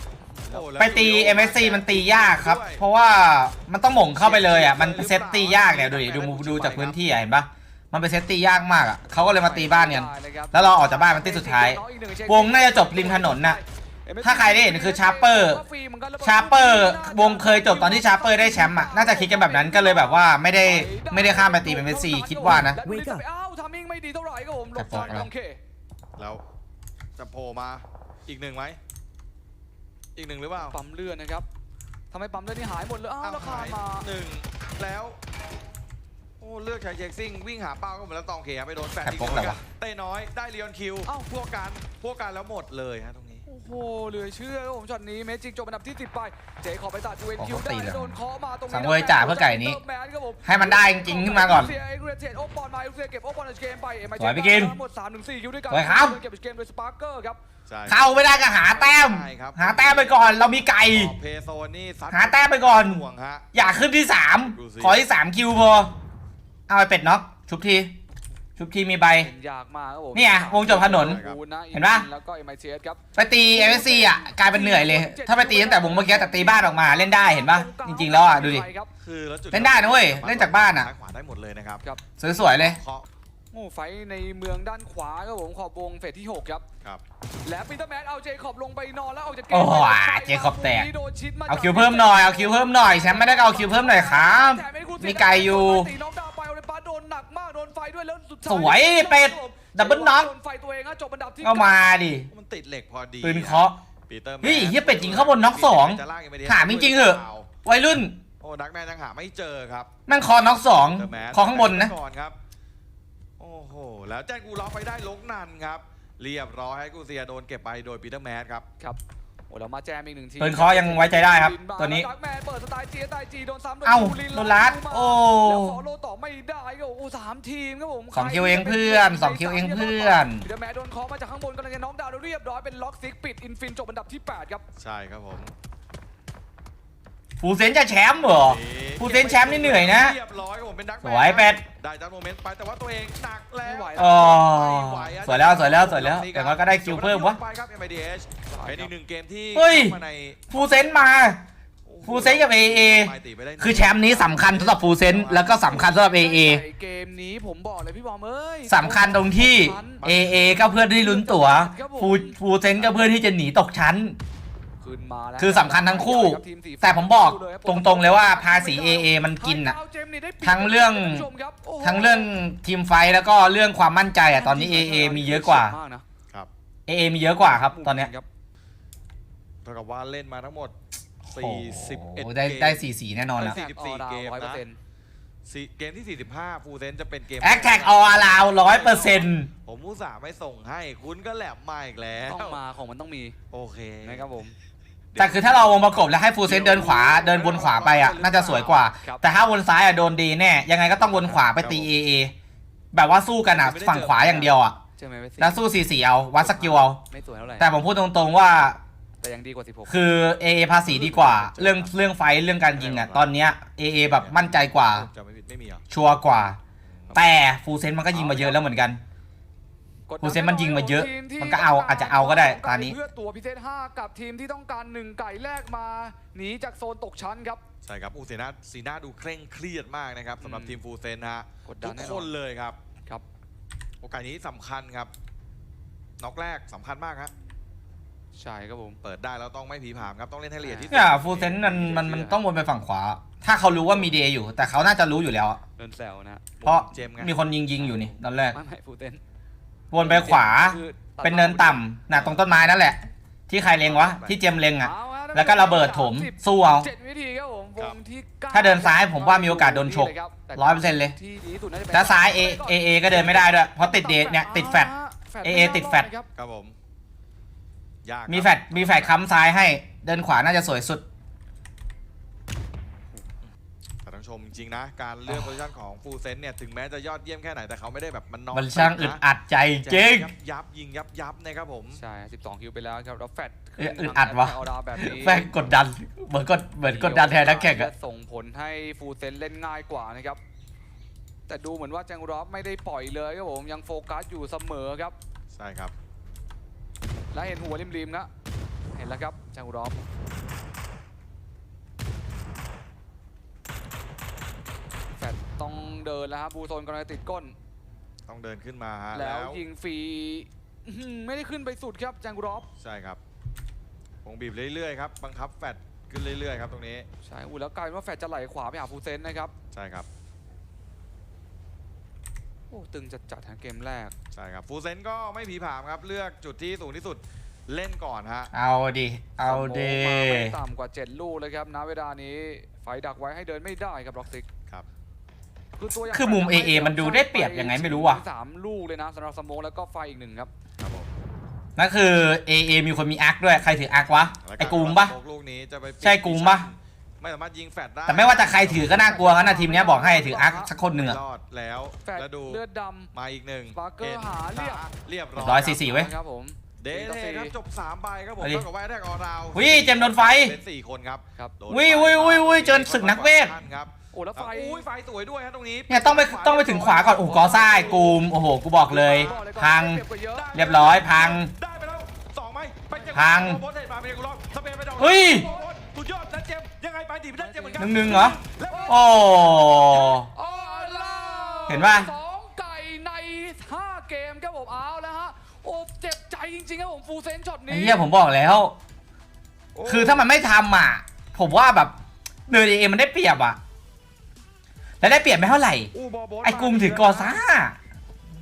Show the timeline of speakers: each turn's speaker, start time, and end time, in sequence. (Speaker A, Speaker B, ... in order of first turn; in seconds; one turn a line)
Speaker A: 0.3-0.7
Speaker B: 0.5-2.8
Speaker C: 0.8-13.6
Speaker B: 4.2-7.0
Speaker A: 9.1-25.6
Speaker C: 14.2-15.6
Speaker C: 16.2-22.9
Speaker C: 24.8-25.3
Speaker B: 24.9-25.2
Speaker B: 26.2-26.4
Speaker B: 27.2-28.8
Speaker B: 30.2-30.8
Speaker A: 30.7-31.5
Speaker A: 32.1-34.1
Speaker B: 33.2-35.2
Speaker B: 36.4-43.5
Speaker C: 39.0-39.6
Speaker A: 41.0-41.3
Speaker A: 43.5-57.4
Speaker C: 47.4-48.2
Speaker C: 48.7-49.8
Speaker C: 50.5-51.7
Speaker C: 54.2-54.8
Speaker C: 55.7-56.2
Speaker B: 57.7-63.5
Speaker C: 57.9-61.1
Speaker C: 62.1-63.0
Speaker C: 63.5-65.9
Speaker B: 64.5-65.0
Speaker C: 66.7-67.9
Speaker C: 68.6-69.3
Speaker A: 69.2-78.9
Speaker C: 70.1-71.2
Speaker B: 70.6-71.4
Speaker C: 71.7-72.1
Speaker C: 73.2-78.7
Speaker B: 79.0-81.8
Speaker C: 79.5-80.9
Speaker C: 82.2-82.8
Speaker B: 82.5-83.0
Speaker A: 83.5-86.7
Speaker A: 87.4-102.0
Speaker C: 89.5-90.9
Speaker C: 91.5-95.9
Speaker C: 98.4-100.3
Speaker C: 101.4-102.3
Speaker B: 102.3-107.5
Speaker C: 103.2-103.8
Speaker C: 104.4-108.2
Speaker B: 108.4-109.9
Speaker C: 110.1-111.9
Speaker B: 110.9-112.4
Speaker B: 113.4-118.7
Speaker A: 118.8-134.7
Speaker C: 120.4-122.1
Speaker C: 123.8-125.8
Speaker C: 128.1-130.5
Speaker B: 134.8-135.5
Speaker C: 137.4-140.2
Speaker B: 138.4-150.8
Speaker C: 141.0-141.6
Speaker A: 143.6-144.2
Speaker C: 144.0-147.4
Speaker A: 148.5-148.9
Speaker C: 149.6-150.0
Speaker C: 150.5-151.4
Speaker B: 151.9-155.8
Speaker C: 152.0-156.6
Speaker A: 155.6-160.2
Speaker C: 158.7-164.2
Speaker B: 160.0-160.7
Speaker A: 160.9-162.4
Speaker A: 164.8-172.3
Speaker C: 165.4-169.8
Speaker C: 170.4-171.3
Speaker C: 171.8-175.8
Speaker A: 174.3-176.1
Speaker C: 176.9-178.1
Speaker A: 177.4-178.3
Speaker B: 179.6-180.7
Speaker B: 181.2-182.9
Speaker C: 181.3-183.6
Speaker B: 183.4-184.6
Speaker A: 183.4-184.8
Speaker B: 185.5-192.6
Speaker C: 187.4-189.5
Speaker A: 192.2-193.4
Speaker B: 193.5-194.3
Speaker A: 194.0-194.6
Speaker B: 195.1-195.7
Speaker C: 195.2-202.3
Speaker B: 196.4-198.9
Speaker B: 201.0-201.9
Speaker C: 202.9-204.8
Speaker A: 203.6-205.7
Speaker C: 205.4-207.0
Speaker A: 206.3-207.7
Speaker C: 207.6-208.8
Speaker A: 209.2-210.1
Speaker C: 209.9-215.1
Speaker B: 210.9-211.9
Speaker B: 212.7-213.3
Speaker B: 214.1-215.8
Speaker C: 215.9-216.6
Speaker B: 216.9-217.3
Speaker C: 217.1-219.0
Speaker B: 218.1-218.6
Speaker A: 220.1-227.6
Speaker C: 220.2-223.0
Speaker B: 227.8-232.8
Speaker A: 230.4-230.8
Speaker A: 231.7-232.3
Speaker B: 234.0-235.1
Speaker B: 236.2-237.3
Speaker A: 238.3-239.0
Speaker B: 239.0-241.6
Speaker A: 240.6-240.9
Speaker C: 240.9-245.6
Speaker A: 241.6-242.4
Speaker A: 245.8-246.5
Speaker B: 246.6-247.3
Speaker C: 246.7-248.6
Speaker A: 247.8-249.2
Speaker C: 249.9-256.9
Speaker A: 250.0-251.8
Speaker B: 252.3-252.6
Speaker B: 253.8-254.4
Speaker A: 254.8-266.3
Speaker C: 258.5-261.1
Speaker C: 261.9-264.9
Speaker C: 265.4-266.1
Speaker B: 266.4-266.8
Speaker B: 268.0-269.2
Speaker C: 268.3-271.0
Speaker B: 274.0-279.2
Speaker C: 278.5-280.3
Speaker B: 279.8-282.0
Speaker A: 281.9-285.5
Speaker C: 283.8-287.9
Speaker A: 286.9-290.4
Speaker A: 291.5-295.1
Speaker B: 295.5-295.9
Speaker A: 297.3-298.3
Speaker A: 298.9-300.0
Speaker A: 305.2-307.6
Speaker B: 308.3-309.6
Speaker A: 309.1-312.7
Speaker B: 312.8-313.2
Speaker B: 314.2-317.1
Speaker A: 317.2-319.5
Speaker B: 319.7-320.1
Speaker A: 322.7-324.1
Speaker B: 324.3-328.5
Speaker C: 328.5-330.6
Speaker A: 329.4-334.5
Speaker A: 335.8-340.5
Speaker C: 336.1-338.2
Speaker B: 340.8-341.1
Speaker C: 341.8-345.1
Speaker B: 344.4-349.2
Speaker C: 346.0-346.7
Speaker C: 348.1-351.2
Speaker A: 349.1-350.7
Speaker B: 350.9-352.6
Speaker A: 352.0-353.1
Speaker B: 353.1-355.7
Speaker A: 353.7-354.8
Speaker C: 355.4-356.1
Speaker A: 355.5-357.6
Speaker B: 356.8-367.2
Speaker C: 359.5-360.6
Speaker C: 361.7-363.6
Speaker A: 364.1-364.9
Speaker C: 365.9-370.0
Speaker A: 367.1-368.2
Speaker B: 368.8-369.5
Speaker A: 369.1-370.5
Speaker B: 370.3-381.8
Speaker C: 370.5-371.5
Speaker C: 373.1-373.6
Speaker C: 375.0-375.5
Speaker A: 375.3-375.7
Speaker A: 377.4-379.2
Speaker C: 377.8-380.3
Speaker A: 379.9-388.0
Speaker C: 381.7-382.1
Speaker C: 387.7-388.8
Speaker B: 389.8-390.3
Speaker C: 389.9-391.9
Speaker C: 392.5-393.6
Speaker C: 395.0-395.9
Speaker B: 395.9-397.4
Speaker C: 396.4-397.8